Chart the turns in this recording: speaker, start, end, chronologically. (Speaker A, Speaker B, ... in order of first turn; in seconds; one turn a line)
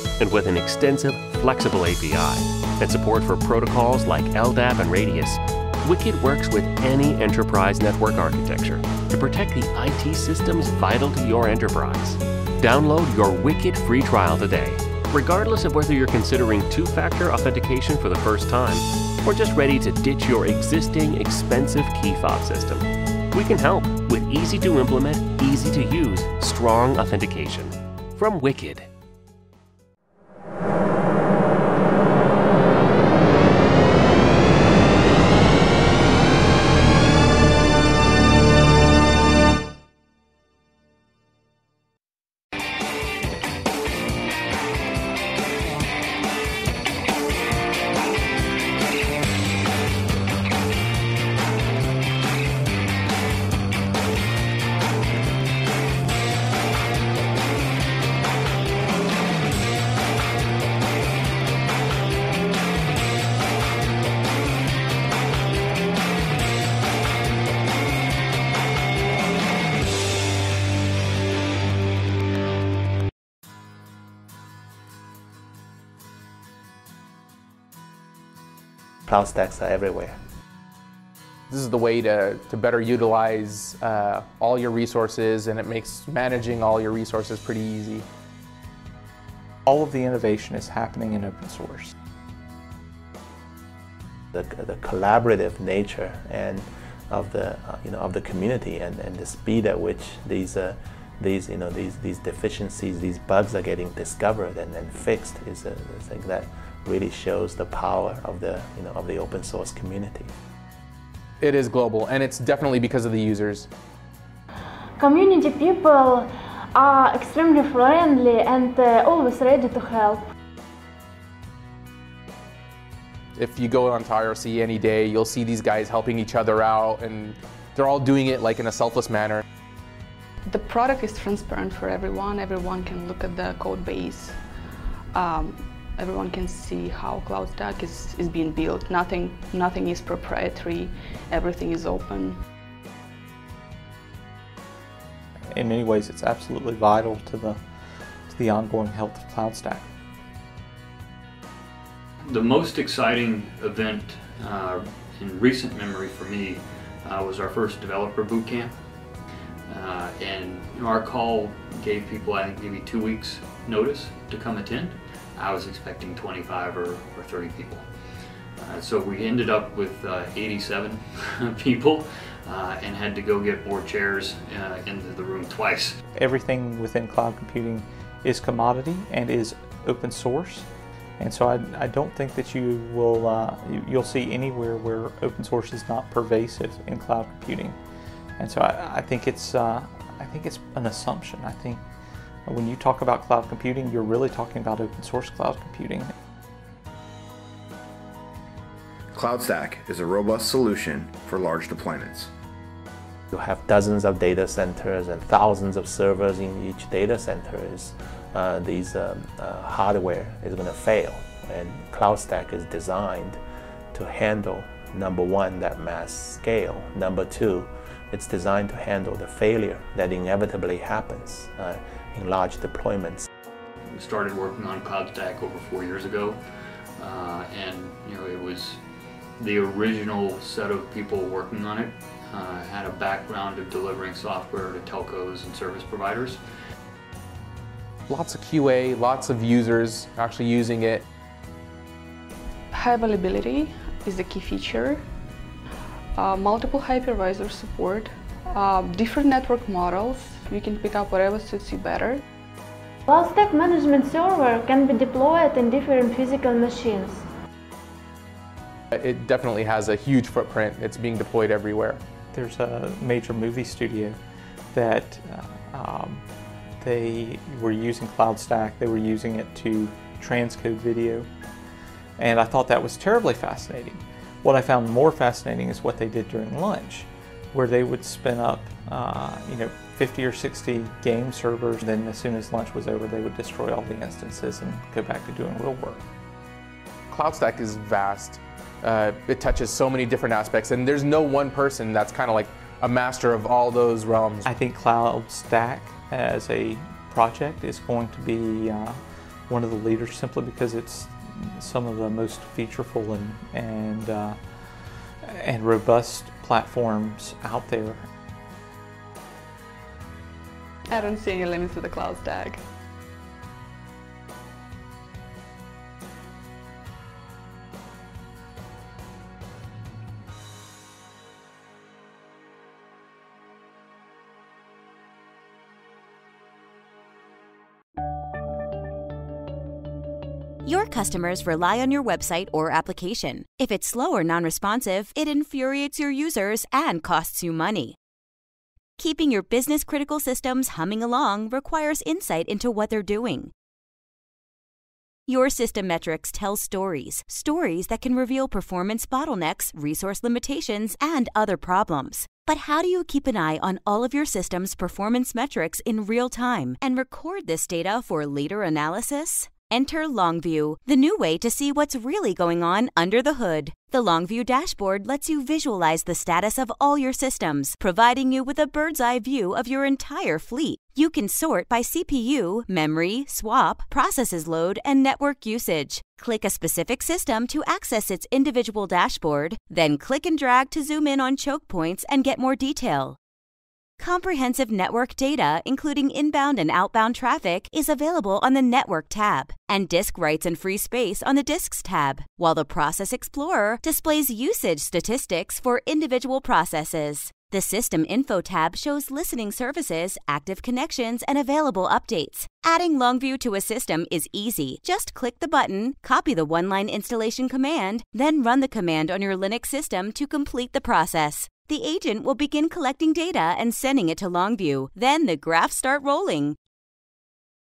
Speaker A: 0.2-28.9
Speaker B: 79.1-80.2
Speaker C: 81.5-88.1
Speaker D: 89.7-91.9
Speaker B: 94.3-110.3
Speaker C: 111.4-113.7
Speaker E: 115.0-120.2
Speaker C: 123.4-129.4
Speaker F: 130.5-134.5
Speaker F: 135.1-142.4
Speaker D: 145.5-149.9
Speaker G: 152.2-158.8
Speaker G: 159.7-167.9
Speaker G: 168.6-176.0
Speaker D: 176.1-180.7
Speaker D: 181.2-187.8
Speaker D: 188.4-191.8
Speaker D: 192.5-196.1
Speaker H: 199.1-202.3
Speaker B: 203.3-213.4
Speaker B: 213.9-223.2
Speaker G: 223.9-226.4
Speaker G: 227.0-228.8
Speaker G: 229.4-236.4
Speaker C: 238.1-241.0
Speaker F: 242.7-245.1
Speaker F: 246.2-252.2
Speaker E: 253.1-257.3
Speaker C: 258.9-262.0
Speaker D: 262.3-264.2
Speaker D: 264.7-266.3
Speaker D: 266.8-271.3
Speaker D: 272.2-286.1
Speaker C: 287.1-294.5
Speaker D: 294.4-308.1
Speaker F: 310.9-312.6
Speaker I: 330.6-338.0
Speaker I: 339.0-343.5
Speaker I: 345.3-383.2
Speaker I: 384.0-416.6